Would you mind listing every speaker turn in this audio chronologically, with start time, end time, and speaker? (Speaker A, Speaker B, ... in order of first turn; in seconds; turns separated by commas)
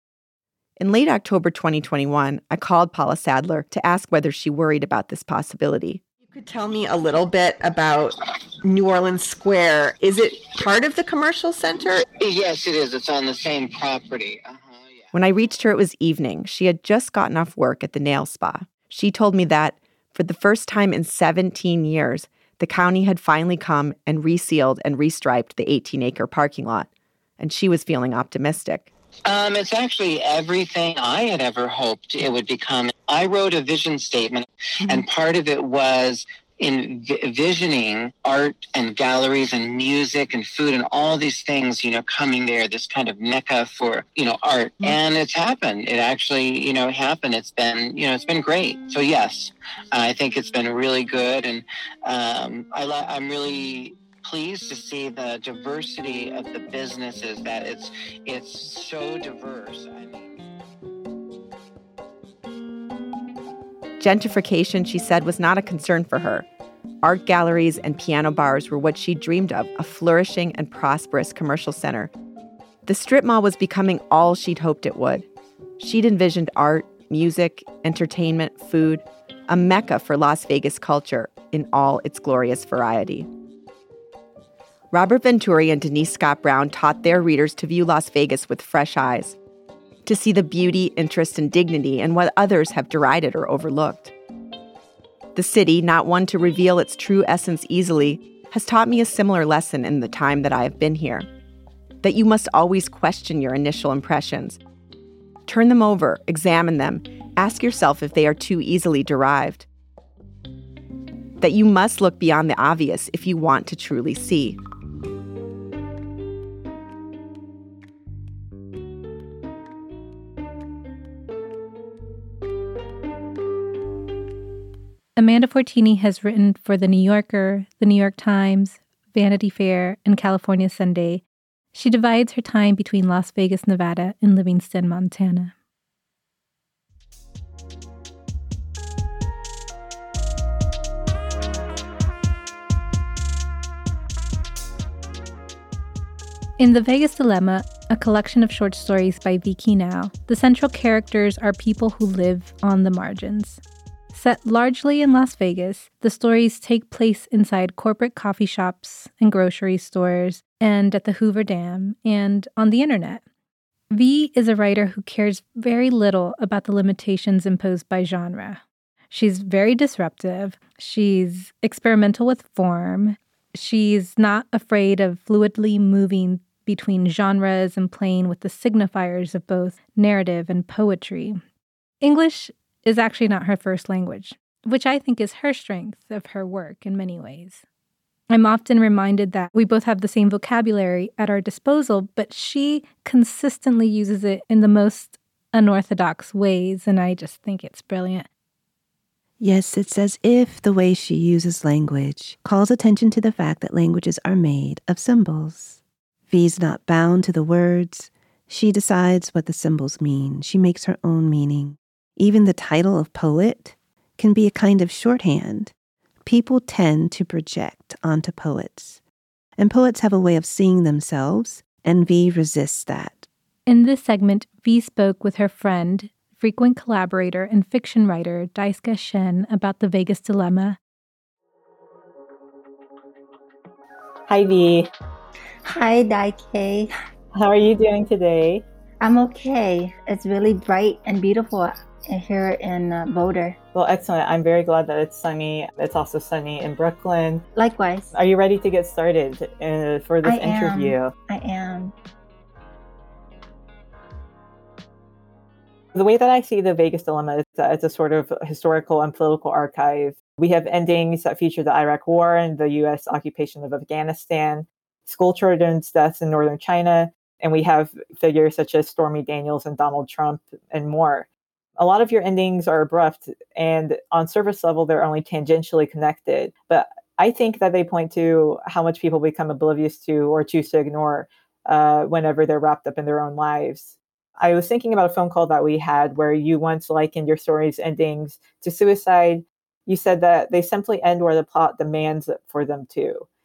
Speaker A: 0.8-6.0, Speaker B: 6.3-12.0, Speaker C: 12.2-15.1, Speaker A: 15.1-28.9, Speaker C: 29.2-60.3, Speaker A: 64.0-66.5, Speaker A: 67.0-72.1, Speaker A: 72.8-75.3, Speaker A: 75.8-83.3, Speaker A: 84.9-89.4, Speaker A: 90.0-94.1, Speaker A: 95.3-101.3, Speaker A: 102.0-104.6, Speaker A: 105.5-109.7, Speaker A: 111.4-114.6, Speaker D: 125.2-135.5, Speaker D: 146.6-153.6, Speaker D: 154.1-163.2, Speaker D: 163.9-181.4, Speaker D: 182.0-187.6, Speaker D: 188.3-198.3, Speaker E: 199.4-215.7, Speaker E: 216.2-219.0, Speaker E: 219.6-223.3, Speaker D: 223.7-230.8, Speaker F: 234.3-234.9, Speaker G: 235.7-236.9, Speaker F: 237.3-238.6, Speaker G: 239.0-243.6, Speaker F: 243.7-247.4, Speaker G: 247.6-248.1, Speaker F: 248.1-251.1, Speaker G: 250.2-251.9, Speaker F: 255.9-293.2